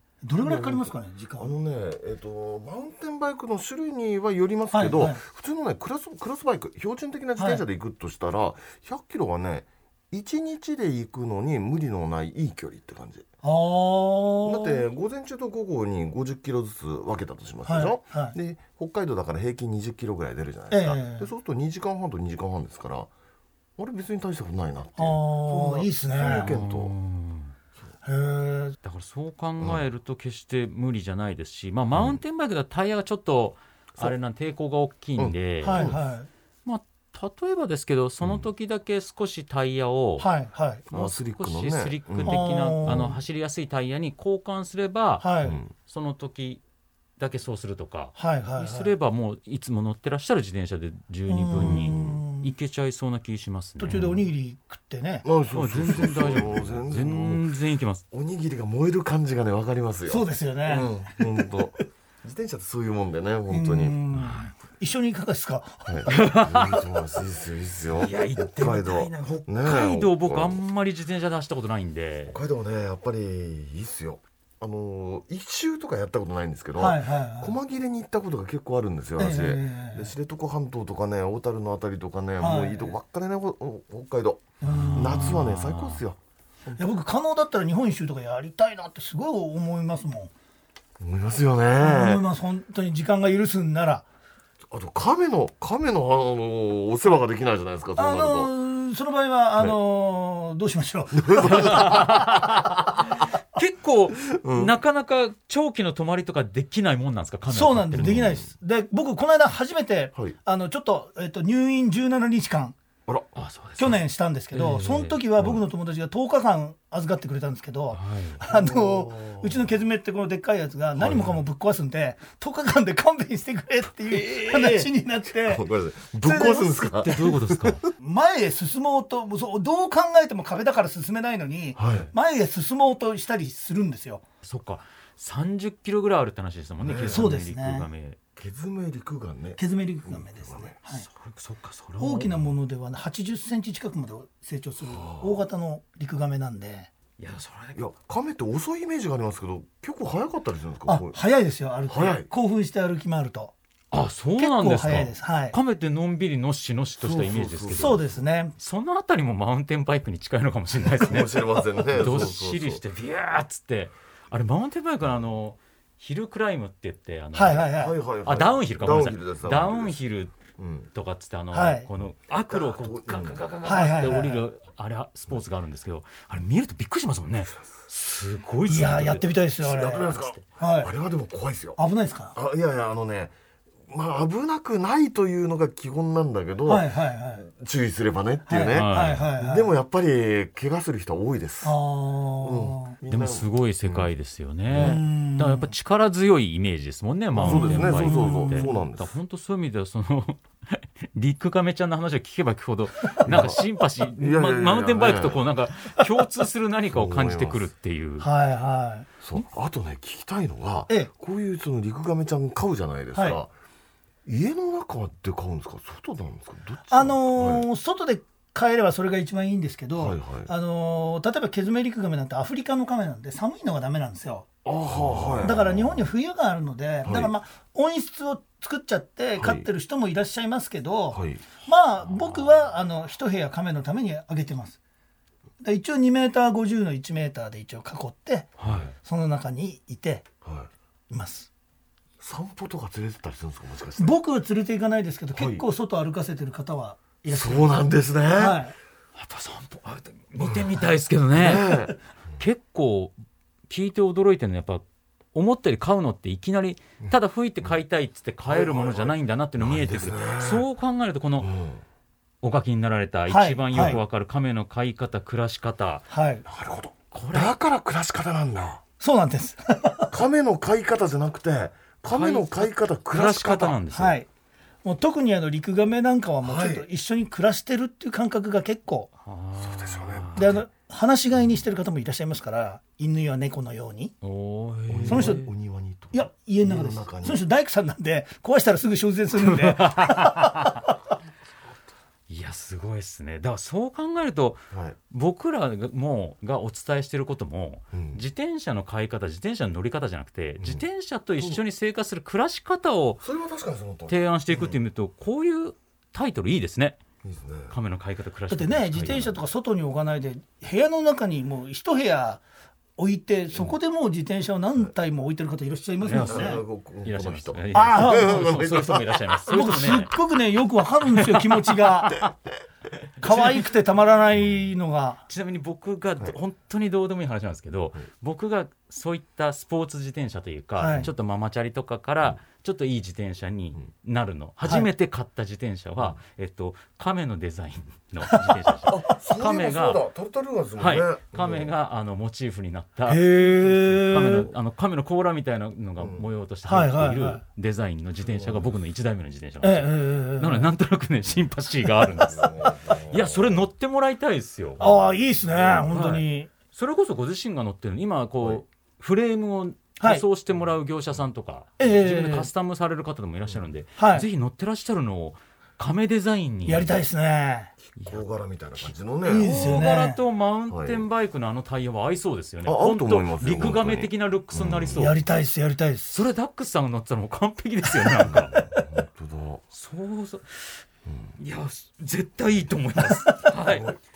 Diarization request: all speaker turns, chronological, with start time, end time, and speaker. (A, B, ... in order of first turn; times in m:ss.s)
0:00.2-0:01.5 A
0:00.4-0:13.3 B
0:04.7-0:05.2 A
0:07.4-0:07.6 A
0:13.4-0:14.8 A
0:14.4-0:23.1 B
0:17.6-0:18.4 A
0:20.7-0:21.3 A
0:23.8-0:26.9 B
0:25.0-0:26.5 A
0:26.2-0:27.5 C
0:28.0-0:28.8 A
0:28.8-0:35.9 C
0:31.9-0:32.2 B
0:35.2-0:36.0 B
0:35.6-0:36.3 A
0:36.6-0:40.3 C
0:40.2-0:40.8 A
0:40.9-0:43.1 B
0:40.9-0:46.6 C
0:42.2-0:43.2 A
0:45.2-0:45.6 A
0:47.2-0:54.2 C
0:48.2-0:48.9 A
0:51.3-0:52.5 A
0:51.6-0:52.2 B
0:53.8-0:55.2 A
0:55.2-0:57.5 B
0:55.5-0:58.0 C
0:58.1-1:04.0 B
1:00.1-1:01.5 A
1:03.5-1:06.2 A
1:04.2-1:04.5 C
1:05.8-1:10.6 B
1:06.1-1:06.9 C
1:08.0-1:12.4 C
1:12.3-1:26.9 B
1:16.8-1:17.5 A
1:19.2-1:20.1 A
1:22.4-1:22.9 A
1:24.6-1:25.3 A
1:24.6-1:26.0 C
1:26.8-1:30.3 A
1:31.0-1:32.2 B
1:31.8-1:34.0 A
1:34.7-1:38.5 B
1:38.0-1:42.0 A
1:41.1-1:43.0 B
1:41.5-1:48.4 C
1:44.3-1:44.7 B
1:47.5-1:52.8 A
1:48.0-1:48.5 B
1:53.1-1:53.3 B
1:53.4-1:54.0 C
1:53.8-2:05.6 A
1:54.5-1:55.2 C
1:57.9-1:58.4 C
1:58.5-1:59.7 B
2:01.0-2:01.4 B
2:04.4-2:07.9 B
2:06.2-2:06.9 A
2:07.0-2:07.8 C
2:08.0-2:14.2 A
2:11.8-2:12.1 B
2:14.4-2:18.2 C
2:16.8-2:17.3 B
2:17.1-2:17.9 A
2:18.4-2:20.8 B
2:19.6-2:21.1 A
2:20.9-2:22.4 C
2:22.0-2:26.9 A
2:24.8-2:25.4 B
2:27.2-2:27.8 C
2:27.7-2:31.2 B
2:30.8-2:33.5 A
2:31.9-2:32.3 B
2:33.9-2:38.0 C
2:34.4-2:35.6 A
2:37.0-2:38.2 B
2:37.7-2:38.5 A
2:38.6-2:50.4 C
2:40.8-2:42.8 B
2:47.3-2:47.9 A
2:47.7-2:50.0 B
2:50.6-2:50.9 B
2:50.9-2:59.3 C
2:51.5-2:51.9 A
2:52.5-2:53.4 B
2:53.6-2:54.4 A
2:58.7-3:00.9 A
2:59.6-3:01.8 B
3:01.8-3:02.4 A
3:02.3-3:03.3 B
3:03.9-3:11.8 B
3:06.6-3:07.4 A
3:08.5-3:09.7 A
3:08.7-3:09.3 C
3:11.6-3:13.0 A
3:12.4-3:14.1 B
3:13.1-3:28.3 C
3:14.7-3:15.0 B
3:14.8-3:15.7 A
3:17.3-3:19.1 B
3:17.4-3:18.8 A
3:23.2-3:23.6 B
3:24.2-3:25.4 B
3:26.9-3:27.7 B
3:28.2-3:29.1 A
3:29.2-3:33.5 B
3:33.1-3:33.4 A
3:34.2-3:37.6 B
3:36.9-3:44.5 A
3:40.0-3:40.5 B
3:44.6-3:46.1 B
3:45.4-3:54.8 A
3:47.0-3:47.3 B
3:49.4-3:49.7 B
3:51.1-3:51.4 B
3:52.1-3:52.5 C
3:55.6-3:58.5 A
3:58.6-3:58.9 C
3:58.6-3:58.9 B
3:59.0-4:00.2 A
4:00.4-4:00.7 B
4:01.1-4:01.5 A
4:02.2-4:04.2 B
4:04.0-4:07.8 A
4:05.3-4:05.6 B
4:07.3-4:08.6 B
4:08.3-4:08.7 A
4:09.2-4:11.8 C
4:10.4-4:10.7 B
4:11.3-4:11.9 B
4:12.4-4:13.1 C
4:13.7-4:21.5 C
4:18.5-4:20.7 B
4:21.4-4:21.8 B
4:22.4-4:26.1 C
4:23.3-4:24.0 A
4:26.1-4:26.4 A
4:26.4-4:28.8 B
4:27.1-4:27.5 C
4:29.0-4:30.1 A
4:30.1-4:33.8 B
4:32.1-4:34.2 C
4:33.9-4:34.3 A
4:34.8-4:39.1 A
4:36.4-4:36.8 B
4:39.2-4:40.6 C
4:39.6-4:40.5 B
4:40.4-4:44.1 A
4:44.2-4:45.5 C
4:44.9-4:47.4 B
4:45.1-4:45.4 A
4:46.1-4:50.8 A
4:49.4-4:50.7 C
4:52.3-5:03.2 C
4:54.7-4:55.0 B
4:57.9-4:58.2 B
5:00.6-5:00.8 B
5:03.2-5:04.8 B
5:04.1-5:07.0 C
5:07.2-5:07.7 B
5:07.7-5:09.4 C
5:08.5-5:12.4 A
5:13.0-5:16.6 A
5:16.0-5:20.2 C
5:16.1-5:19.5 B
5:17.7-5:18.5 A
5:19.5-5:22.2 A
5:21.0-5:22.3 C
5:23.2-5:23.7 C
5:23.2-5:25.2 A
5:25.3-5:40.0 C
5:30.8-5:31.1 A
5:38.3-5:38.5 A
5:38.8-5:41.7 B
5:40.8-5:52.6 C
5:43.0-5:44.5 A
5:46.0-5:46.2 B
5:46.6-5:47.4 A
5:48.2-5:48.8 B
5:49.6-5:50.7 A
5:52.1-5:53.7 B
5:53.1-5:54.8 C
5:54.8-5:55.9 B
5:54.8-5:56.5 A
5:55.9-6:07.0 C
6:01.8-6:02.5 A
6:04.0-6:04.3 A
6:06.6-6:07.7 A
6:07.8-6:09.8 B
6:08.0-6:08.2 C
6:08.8-6:15.2 C
6:09.2-6:10.2 A
6:10.7-6:11.0 B
6:12.6-6:15.1 B
6:14.9-6:16.1 A
6:16.1-6:18.6 C
6:18.2-6:18.8 A
6:18.3-6:19.6 B
6:19.7-6:20.8 C
6:21.1-6:21.3 B
6:21.4-6:24.0 C
6:23.2-6:23.4 A
6:23.7-6:24.0 B